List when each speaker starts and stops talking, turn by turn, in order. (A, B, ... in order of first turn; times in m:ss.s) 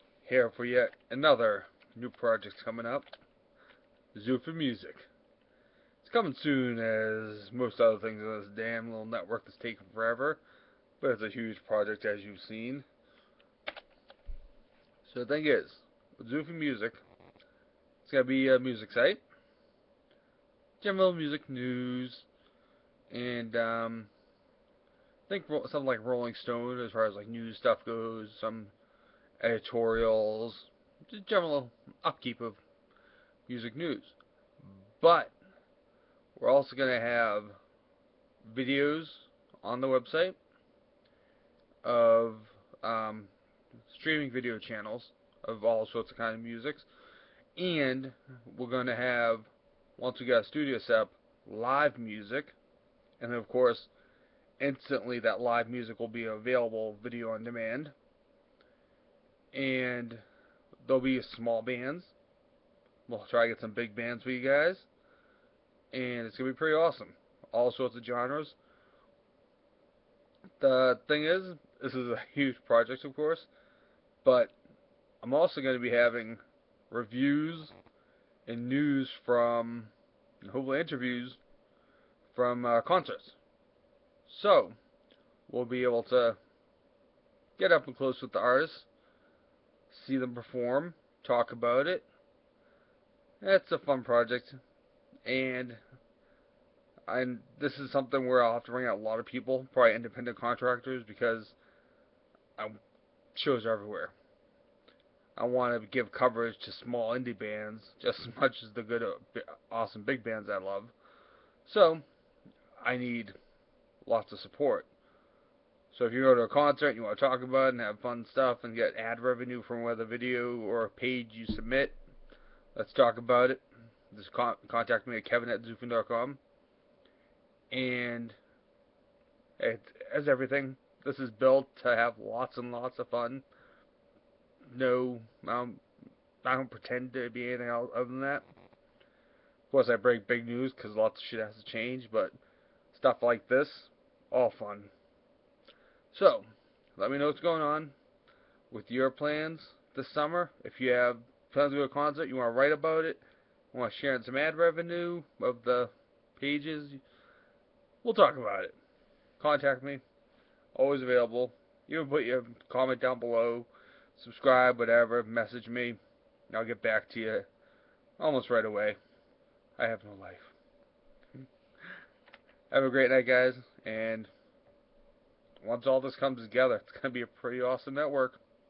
0:00.2-0:03.1 A
0:04.1-0:05.1 A
0:06.0-0:10.4 A
0:11.0-0:12.8 A
0:15.0-0:17.0 A
0:18.0-0:19.2 A
0:20.8-0:22.2 A
0:23.1-0:24.1 A
0:25.3-0:28.7 A
0:29.4-0:32.6 A
0:33.5-0:34.1 A
0:35.0-0:35.3 A
0:36.4-0:37.6 A
0:38.4-0:40.4 A
0:41.8-0:43.3 A
0:43.9-0:46.8 A
0:47.6-0:52.5 A
0:53.2-0:53.9 A
0:54.6-0:57.9 A
0:59.5-1:00.2 A
1:00.8-1:02.1 A
1:03.1-1:04.9 A
1:05.9-1:08.6 A
1:10.6-1:13.5 A
1:14.2-1:14.5 A
1:15.2-1:17.7 A
1:18.4-1:21.4 A
1:22.3-1:23.4 A
1:24.2-1:24.8 A
1:25.5-1:26.4 A
1:27.6-1:28.9 A
1:29.9-1:32.0 A
1:33.4-1:34.6 A
1:35.2-1:35.8 A
1:37.1-1:41.6 A
1:43.3-1:44.1 A
1:45.4-1:50.9 A
1:51.6-1:52.0 A
1:52.8-1:53.3 A
1:54.0-1:54.9 A
1:55.9-2:02.0 A
2:02.7-2:06.4 A
2:07.7-2:08.4 A
2:09.6-2:13.4 A
2:14.6-2:15.8 A
2:16.4-2:18.4 A
2:19.7-2:22.3 A
2:22.9-2:24.9 A
2:26.1-2:26.4 A
2:27.0-2:27.9 A
2:28.7-2:37.0 A
2:38.0-2:38.8 A
2:39.4-2:40.0 A
2:40.7-2:46.0 A
2:46.5-2:47.5 A
2:48.2-2:49.0 A
2:49.8-2:50.5 A
2:52.7-2:54.3 A
2:55.6-2:58.4 A